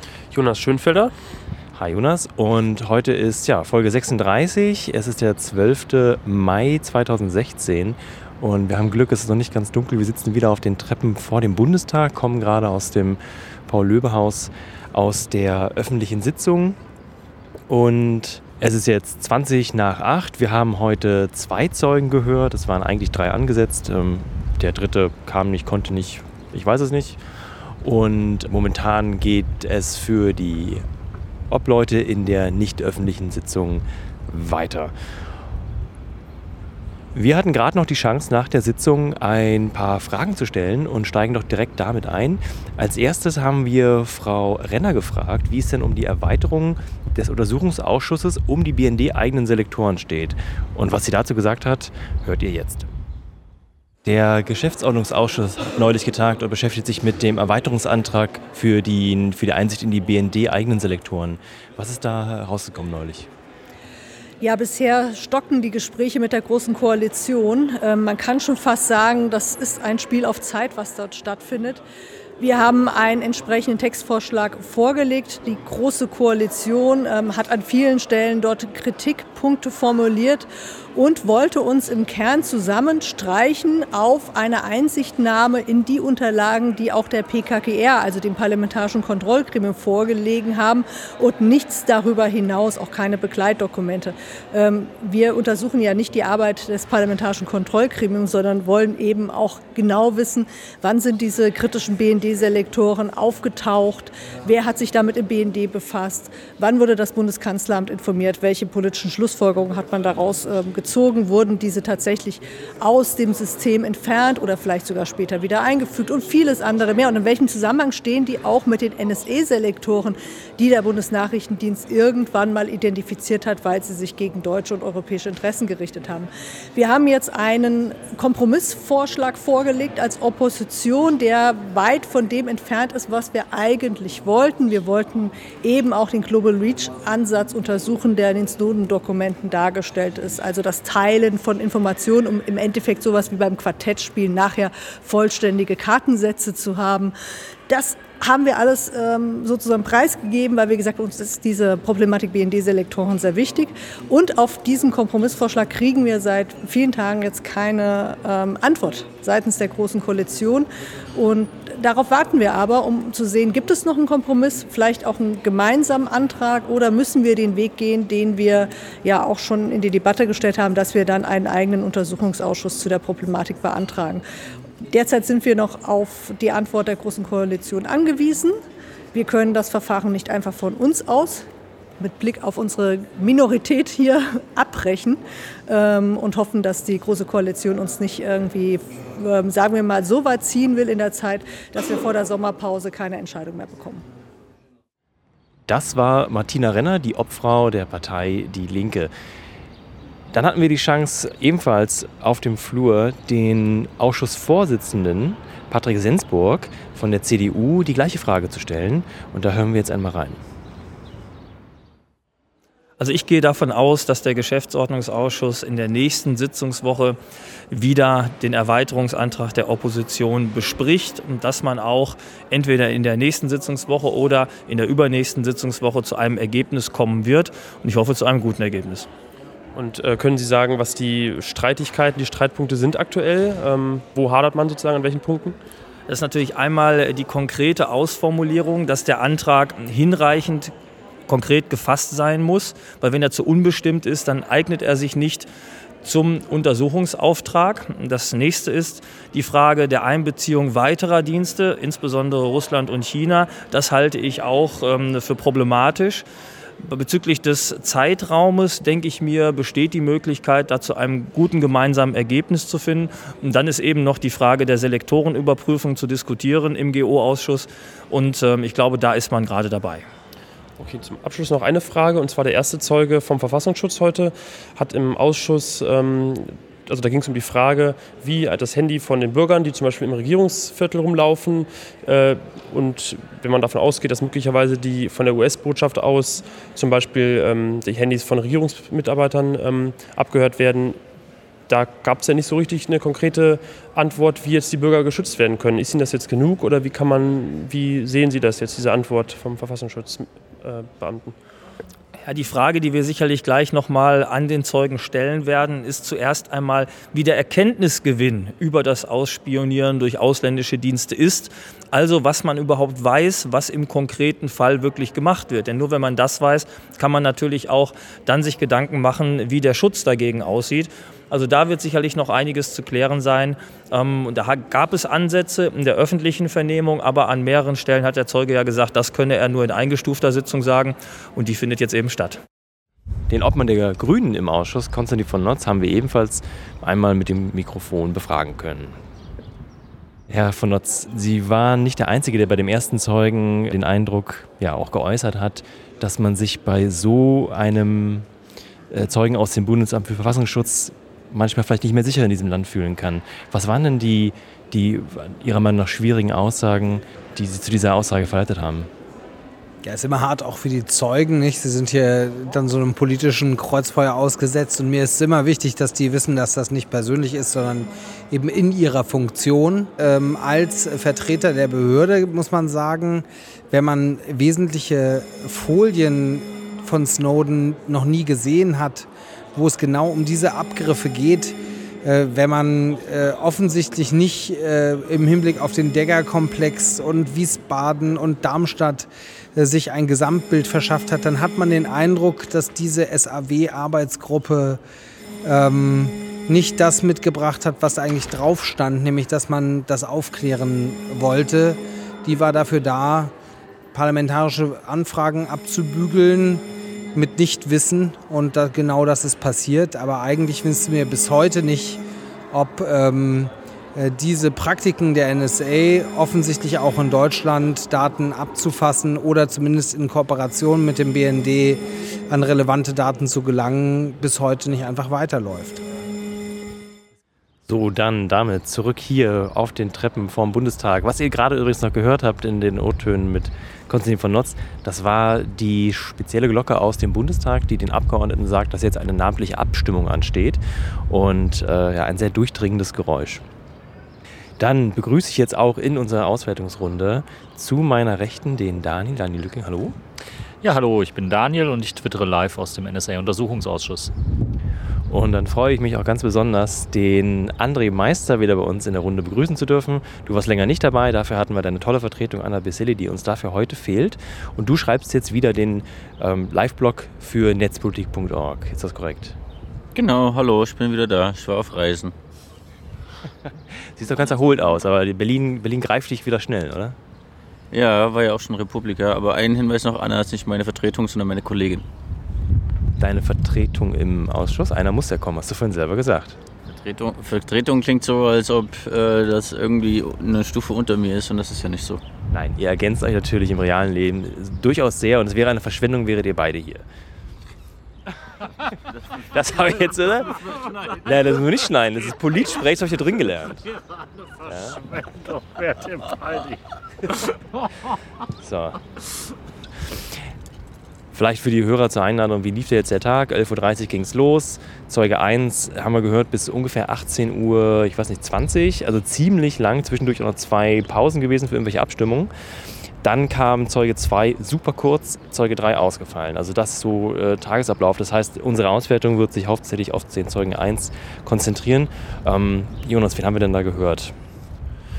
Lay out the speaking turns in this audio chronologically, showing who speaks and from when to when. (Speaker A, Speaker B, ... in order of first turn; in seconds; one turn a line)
Speaker A: 0.3-1.1
Speaker B: 1.7-16.8
Speaker B: 17.7-27.2
Speaker B: 27.8-30.8
Speaker B: 31.5-34.9
Speaker B: 37.1-52.9
Speaker B: 54.0-63.3
Speaker C: 64.4-71.8
Speaker C: 72.4-147.1
Speaker C: 147.7-174.2
Speaker C: 174.9-178.6
Speaker C: 179.1-181.4
Speaker C: 182.0-194.1
Speaker B: 195.7-199.1
Speaker B: 200.3-210.4
Speaker D: 213.0-217.2
Speaker D: 217.7-229.1
Speaker A: 229.8-235.6
Speaker D: 236.1-240.7
Speaker D: 241.3-245.5
Speaker D: 246.0-256.2
Speaker D: 256.8-270.1
Speaker A: 270.8-291.0
Speaker A: 291.7-301.4
Speaker D: 302.2-332.4
Speaker B: 333.3-339.0
Speaker B: 340.3-348.3
Speaker B: 348.9-358.9
Speaker E: 359.8-394.8
Speaker E: 395.4-403.3
Speaker E: 403.9-406.6
Speaker E: 407.1-412.0
Speaker E: 412.5-425.9
Speaker B: 427.7-443.4
Speaker B: 444.6-450.0
Speaker F: 450.6-454.1
Speaker B: 455.1-469.4
Speaker G: 469.9-472.1
Speaker B: 473.7-477.0
Speaker G: 477.7-481.9
Speaker B: 483.0-486.4
Speaker G: 486.7-492.0
Speaker B: 492.3-496.9
Speaker B: 499.2-503.6
Speaker B: 504.4-504.8
Speaker F: 504.9-506.6
Speaker B: 508.4-508.8
Speaker B: 511.1-522.3
Speaker B: 523.0-534.1